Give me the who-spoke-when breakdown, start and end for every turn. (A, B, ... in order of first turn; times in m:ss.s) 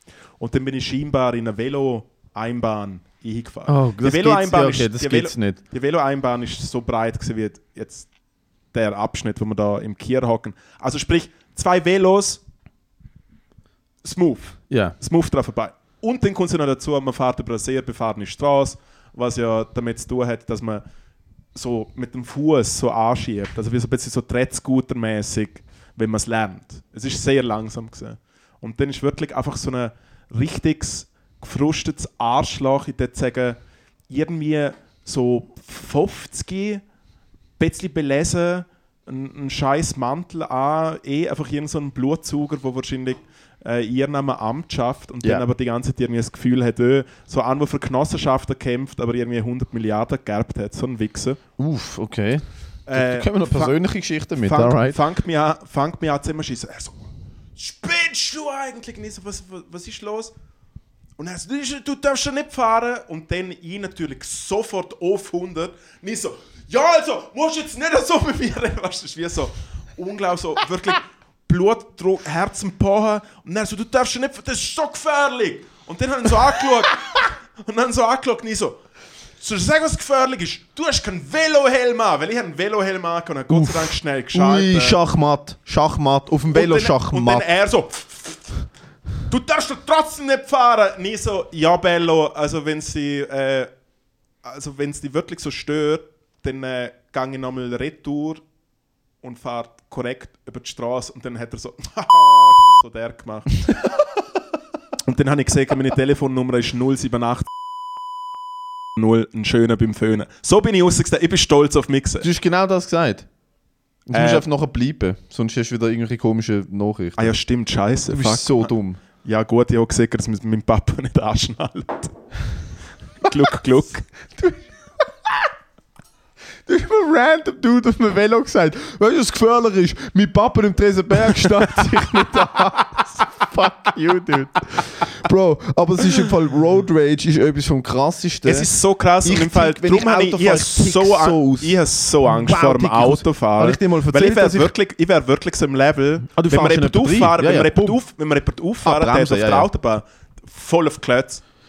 0:00.4-0:08.1 A
0:03.7-0:05.6 B
0:08.7-0:12.4 A
0:14.0-0:20.8 A
0:14.7-0:15.0 B
0:21.6-0:36.8 A
0:37.6-0:51.4 A
0:51.6-0:55.0 B
0:52.9-0:53.8 A
0:54.4-0:57.0 A
0:57.6-1:00.3 A
1:01.2-1:18.8 A
1:19.4-1:25.0 A
1:23.5-1:27.5 B
1:26.5-1:28.5 A
1:29.3-1:33.7 A
1:34.4-1:38.4 A
1:39.2-1:43.7 A
1:45.1-1:47.5 A
1:49.0-1:52.3 A
1:52.2-1:53.3 B
1:54.1-1:57.3 B
1:54.1-1:54.5 A
1:57.2-1:58.7 A
1:58.1-1:59.0 B
1:59.2-2:02.1 A
2:03.2-2:04.1 A
2:06.7-2:18.7 B
2:18.4-2:31.4 A
2:19.2-2:24.7 B
2:26.3-2:28.0 B
2:28.8-2:29.7 B